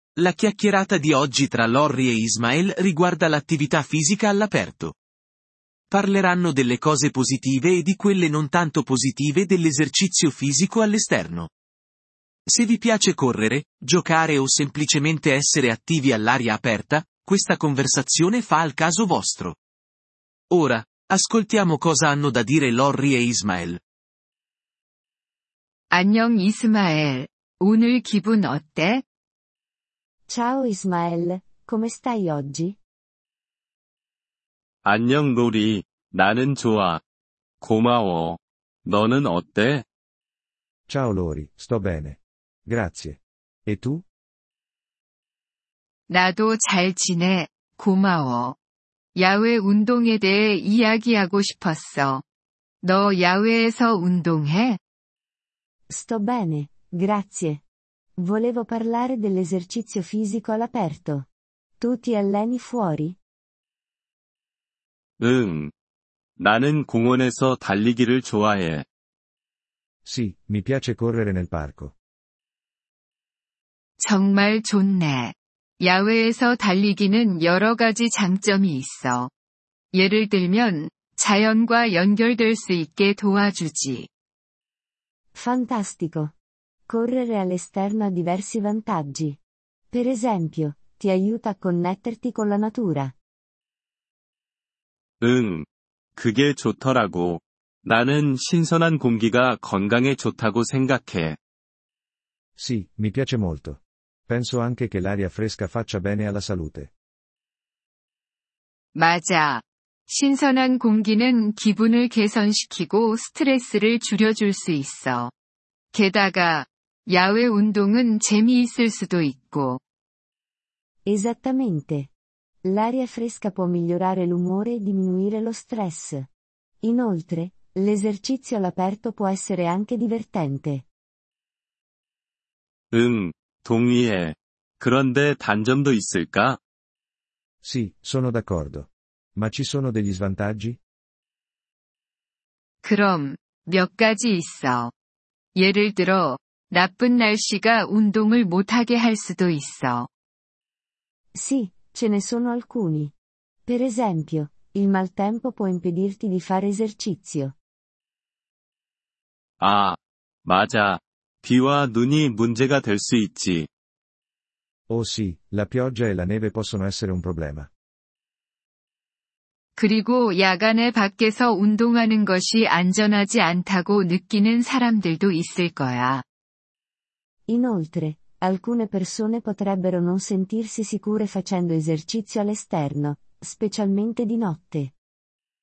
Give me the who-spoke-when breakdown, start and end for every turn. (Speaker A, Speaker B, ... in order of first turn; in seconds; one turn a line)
Speaker A: 0.2-4.9
Speaker A: 5.9-11.5
Speaker A: 12.5-19.6
Speaker A: 20.5-23.8
Speaker B: 25.9-29.0
Speaker C: 30.3-32.8
Speaker D: 34.8-37.0
Speaker D: 37.6-39.8
Speaker E: 40.9-44.0
Speaker B: 46.1-48.6
Speaker B: 49.1-52.2
Speaker B: 52.8-54.8
Speaker C: 55.9-57.6
Speaker C: 58.2-61.3
Speaker C: 61.8-63.2
Speaker D: 65.2-65.7
Speaker D: 66.4-68.8
Speaker E: 70.0-71.9
Speaker B: 74.0-79.3
Speaker B: 79.9-84.1
Speaker C: 85.3-86.3
Speaker C: 86.9-89.4
Speaker C: 89.9-93.1
Speaker D: 95.2-101.4
Speaker E: 102.6-106.9
Speaker B: 108.9-115.3
Speaker B: 115.9-119.8
Speaker C: 121.0-122.1
Speaker C: 122.6-126.3
Speaker C: 126.8-130.8
Speaker D: 132.9-136.6
Speaker E: 137.6-140.8
Speaker B: 142.8-144.9
Speaker B: 145.5-150.1
Speaker C: 151.3-153.1
Speaker C: 153.7-157.5
Speaker D: 159.6-163.7
Speaker E: 164.9-167.7
Speaker B: 169.8-176.2
Speaker C: 177.5-184.9